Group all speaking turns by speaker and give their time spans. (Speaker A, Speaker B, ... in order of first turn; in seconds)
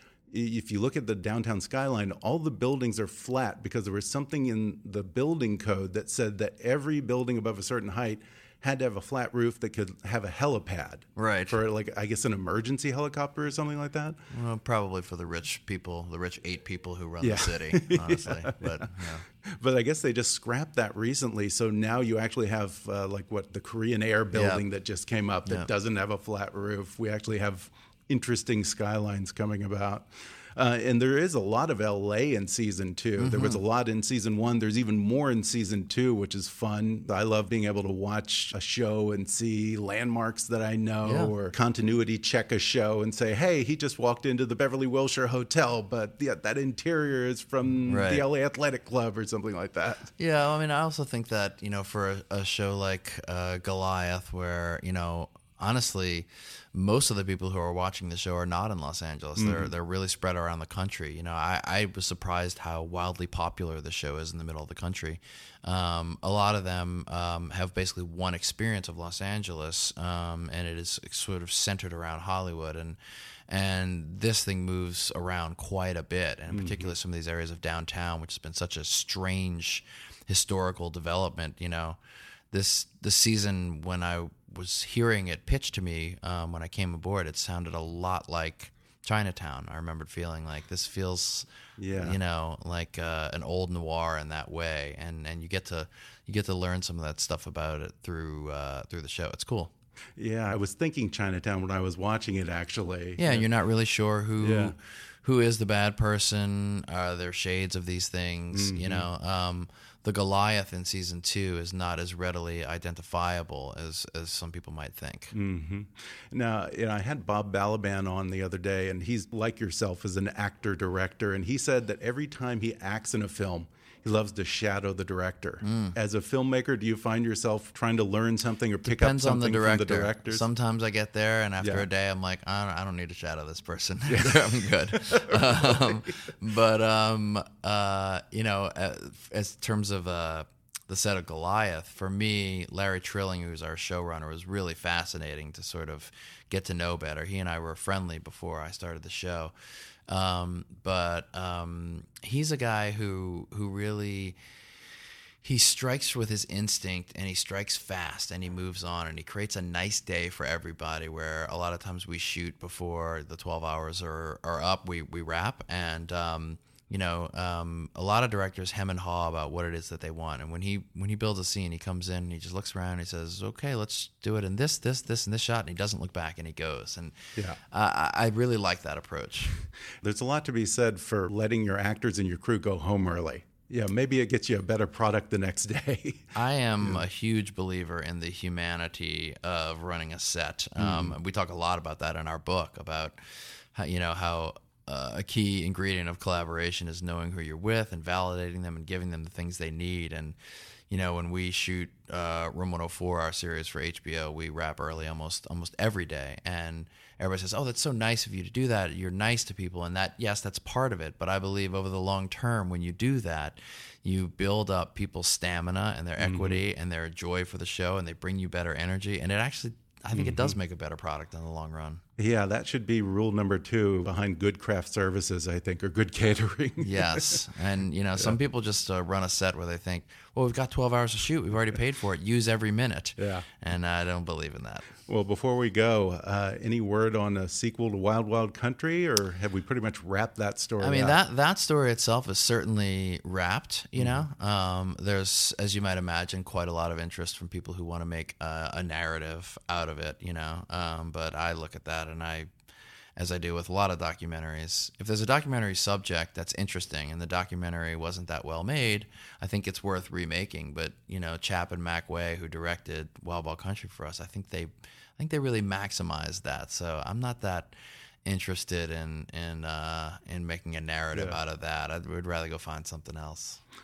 Speaker A: 0.3-14.2, 17.2-18.9, 19.4-50.1, 59.4-59.7, 76.5-76.9, 91.8-92.2, 100.2-103.5, 104.4-104.7, 108.5-109.1, 115.3-130.4, 131.6-131.9, 134.1-136.1, 180.0-187.0, 190.8-191.2, 216.2-216.6, 220.1-220.6, 222.2-227.4, 233.2-233.5, 235.1-241.2, 244.0-244.3, 271.1-271.4
Speaker B: 11.2-11.6, 14.3-19.2, 24.3-24.6, 33.2-33.6, 41.0-41.3, 47.9-48.2, 50.2-73.0, 73.5-82.0, 82.5-99.7, 103.2-115.3, 125.6-126.0, 128.8-149.5, 150.1-154.4, 155.4-179.6, 186.3-200.3, 200.9-222.0, 226.8-234.9, 240.8-252.5, 253.2-267.7, 268.2-273.6